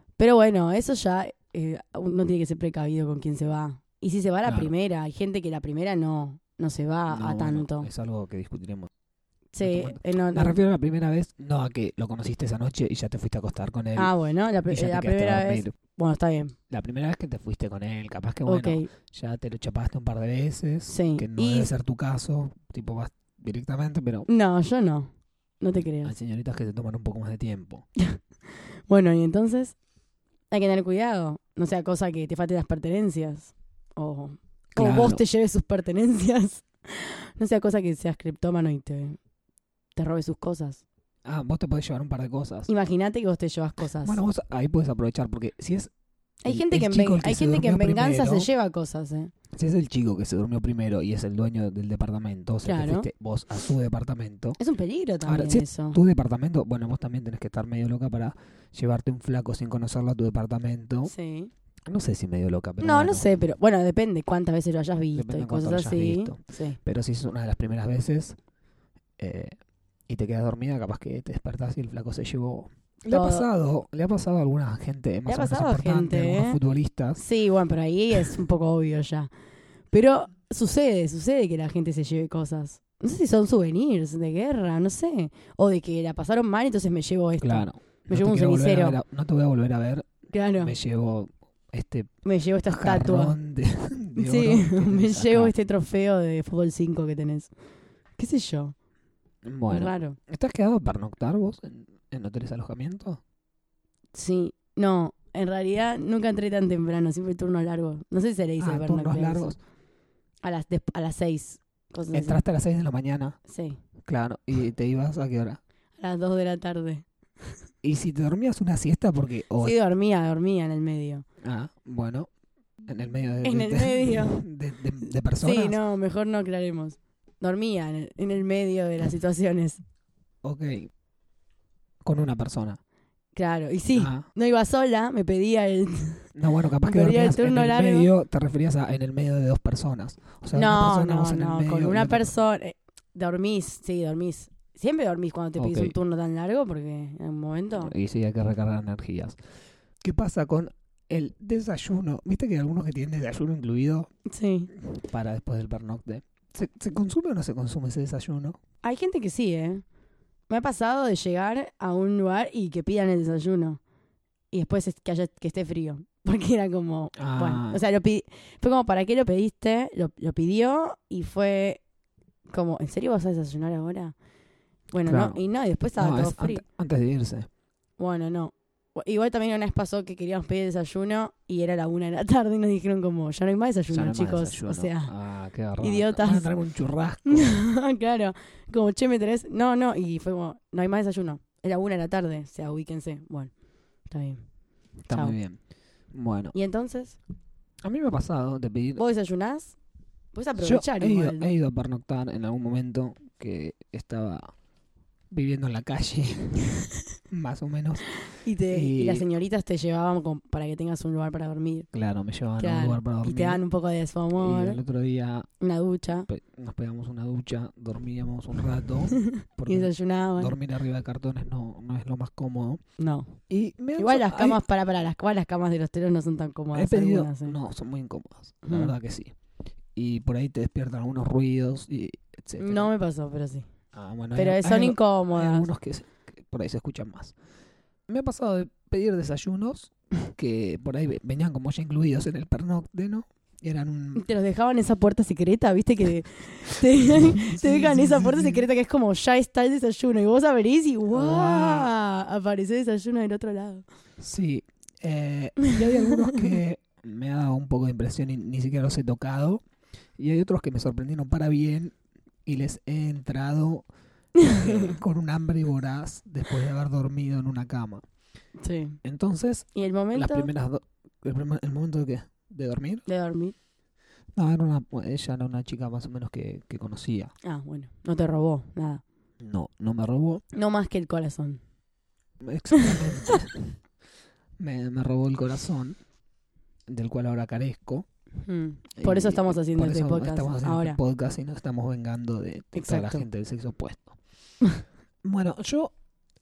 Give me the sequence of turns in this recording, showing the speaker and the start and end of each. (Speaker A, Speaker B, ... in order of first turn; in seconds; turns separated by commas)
Speaker A: 0.2-7.9, Speaker B: 4.4-4.7, Speaker B: 7.1-8.9, Speaker A: 9.5-10.6, Speaker B: 9.6-14.1, Speaker A: 13.9-16.5, Speaker B: 14.7-15.7, Speaker B: 16.7-24.3, Speaker A: 18.4-18.9, Speaker A: 20.9-21.7, Speaker A: 24.3-26.1, Speaker B: 26.0-27.8, Speaker A: 28.9-29.8, Speaker A: 30.5-39.2, Speaker B: 34.7-35.2, Speaker A: 40.0-40.8, Speaker B: 41.2-42.7, Speaker A: 42.7-44.2, Speaker B: 44.0-45.9, Speaker A: 46.4-49.3, Speaker B: 46.5-48.5, Speaker B: 49.5-54.6, Speaker A: 52.6-53.1, Speaker A: 54.6-56.0, Speaker B: 55.2-61.1, Speaker A: 61.0-61.5, Speaker B: 61.9-63.4, Speaker A: 62.8-66.8, Speaker B: 65.1-68.4, Speaker B: 69.2-69.5, Speaker B: 70.1-77.2, Speaker A: 73.1-73.5, Speaker A: 75.3-76.6, Speaker A: 77.2-79.3, Speaker A: 79.9-89.0, Speaker B: 87.4-92.1, Speaker A: 90.3-90.7, Speaker A: 92.2-93.3, Speaker B: 92.7-95.5, Speaker A: 94.2-97.5, Speaker A: 98.2-98.7, Speaker B: 99.4-103.2, Speaker A: 99.7-100.2, Speaker A: 104.1-109.5, Speaker B: 108.6-109.6, Speaker A: 110.4-112.4, Speaker B: 112.1-113.4, Speaker A: 113.5-113.8, Speaker B: 114.0-115.6, Speaker A: 116.0-117.0, Speaker B: 117.8-119.8, Speaker A: 119.6-121.2, Speaker B: 121.4-122.3, Speaker B: 122.9-125.8, Speaker A: 123.4-124.4, Speaker A: 125.4-129.8, Speaker B: 130.4-130.9, Speaker B: 132.0-132.8, Speaker A: 133.3-136.3, Speaker B: 133.9-134.2, Speaker B: 136.3-142.3, Speaker A: 136.8-138.1, Speaker A: 140.5-147.9, Speaker B: 145.6-145.9, Speaker B: 147.8-149.4, Speaker B: 150.0-154.1, Speaker A: 154.3-154.7, Speaker B: 154.8-158.6, Speaker A: 158.8-159.8, Speaker A: 160.5-163.8, Speaker A: 164.5-171.8, Speaker B: 167.2-167.8, Speaker A: 172.5-174.1, Speaker A: 174.9-176.6, Speaker B: 175.1-175.4, Speaker B: 175.9-177.5, Speaker A: 178.0-185.1, Speaker B: 183.9-187.6, Speaker A: 185.8-186.5, Speaker A: 187.2-193.5, Speaker A: 194.1-194.4, Speaker B: 195.1-195.6, Speaker A: 195.1-195.3, Speaker B: 196.1-196.5, Speaker A: 196.5-197.2, Speaker B: 197.8-199.0, Speaker A: 199.0-199.8, Speaker A: 200.3-201.5, Speaker B: 200.6-204.5, Speaker B: 205.3-206.8, Speaker B: 207.3-208.0, Speaker A: 208.3-211.9, Speaker B: 208.7-209.2, Speaker B: 211.9-213.6, Speaker A: 212.6-214.8, Speaker B: 214.3-215.5, Speaker A: 215.6-216.3, Speaker B: 216.3-222.8, Speaker A: 219.1-220.5, Speaker A: 223.0-223.3, Speaker B: 223.5-224.6, Speaker A: 224.0-227.6, Speaker B: 226.7-229.3, Speaker A: 228.6-228.9, Speaker B: 229.9-232.9, Speaker A: 232.6-233.7, Speaker B: 233.9-237.3, Speaker A: 234.3-235.7, Speaker B: 238.1-244.2, Speaker A: 244.2-253.8, Speaker B: 246.9-248.7, Speaker B: 251.1-251.9, Speaker B: 254.2-259.6, Speaker A: 255.7-256.4, Speaker B: 260.2-261.9, Speaker B: 262.4-263.8, Speaker A: 264.4-265.0, Speaker B: 264.4-268.0, Speaker A: 268.6-269.0, Speaker B: 269.0-273.0, Speaker A: 269.7-270.5, Speaker A: 273.1-273.5, Speaker B: 274.4-277.3, Speaker A: 277.4-279.0, Speaker B: 279.4-280.4, Speaker A: 280.5-281.6, Speaker B: 282.4-283.8, Speaker A: 282.7-283.4, Speaker B: 284.6-286.0, Speaker B: 286.9-288.1, Speaker A: 288.4-291.0, Speaker B: 289.0-294.2, Speaker A: 292.7-293.2, Speaker B: 295.2-295.9